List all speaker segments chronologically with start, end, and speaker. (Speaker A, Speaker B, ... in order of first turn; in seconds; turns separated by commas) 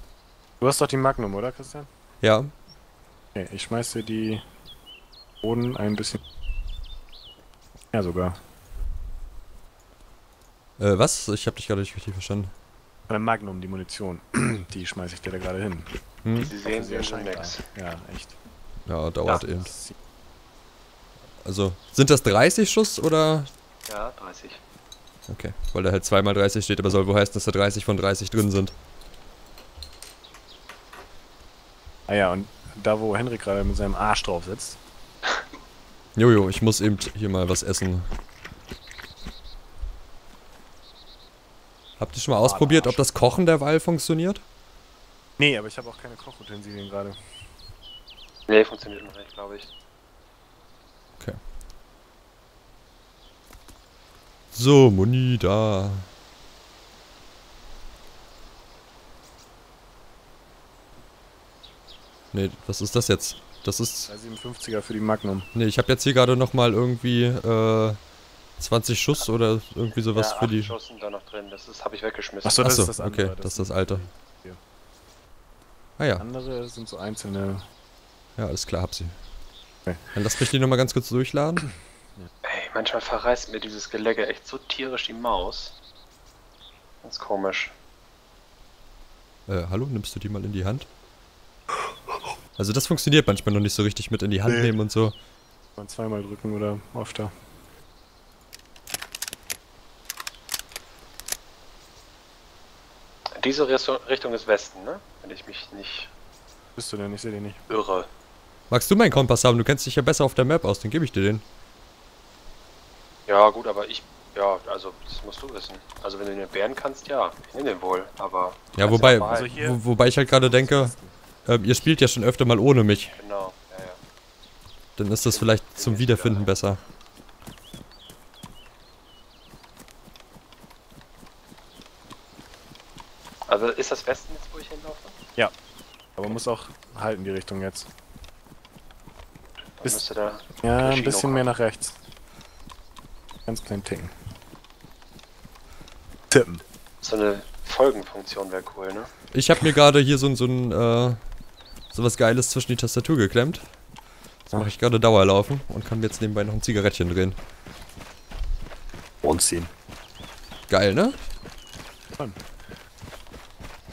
Speaker A: 0.6-1.9, Speaker B: 2.2-2.5, Speaker A: 3.4-4.4, Speaker A: 5.4-6.2, Speaker A: 7.9-8.4, Speaker B: 10.8-12.5, Speaker A: 13.1-18.4, Speaker B: 16.2-16.5, Speaker C: 16.4-17.7, Speaker B: 18.9-19.7, Speaker A: 19.5-19.9, Speaker B: 21.4-23.5, Speaker C: 23.9-24.6, Speaker B: 25.3-28.7, Speaker A: 32.1-34.8, Speaker B: 36.2-38.1, Speaker B: 42.0-44.4, Speaker A: 42.4-43.0, Speaker A: 45.4-47.2, Speaker C: 48.5-49.7, Speaker B: 54.5-56.1, Speaker B: 62.3-64.1, Speaker A: 64.1-65.5, Speaker B: 65.5-68.0, Speaker B: 68.6-70.8, Speaker C: 69.9-72.7, Speaker A: 72.4-74.6, Speaker B: 72.6-74.0, Speaker B: 76.0-76.2, Speaker A: 76.2-77.6, Speaker B: 78.4-79.2, Speaker B: 80.1-81.7, Speaker C: 82.4-85.7, Speaker C: 87.0-87.7, Speaker B: 89.5-90.9, Speaker B: 92.6-95.2, Speaker A: 94.5-94.8, Speaker A: 95.8-97.3, Speaker C: 103.4-106.1, Speaker A: 106.8-107.6, Speaker C: 107.7-108.1, Speaker B: 108.7-111.4, Speaker C: 113.3-119.5, Speaker B: 118.8-120.9, Speaker A: 119.0-121.1, Speaker B: 121.5-123.2, Speaker C: 123.2-124.0, Speaker B: 125.0-126.8, Speaker C: 125.2-126.5, Speaker C: 133.5-135.1, Speaker A: 136.2-137.9, Speaker C: 139.8-141.5, Speaker A: 140.6-142.0, Speaker A: 143.5-144.1, Speaker A: 146.3-146.6, Speaker C: 147.0-149.1, Speaker B: 149.3-151.2, Speaker B: 151.9-153.6, Speaker B: 154.5-157.4, Speaker A: 159.2-159.7, Speaker B: 160.7-161.2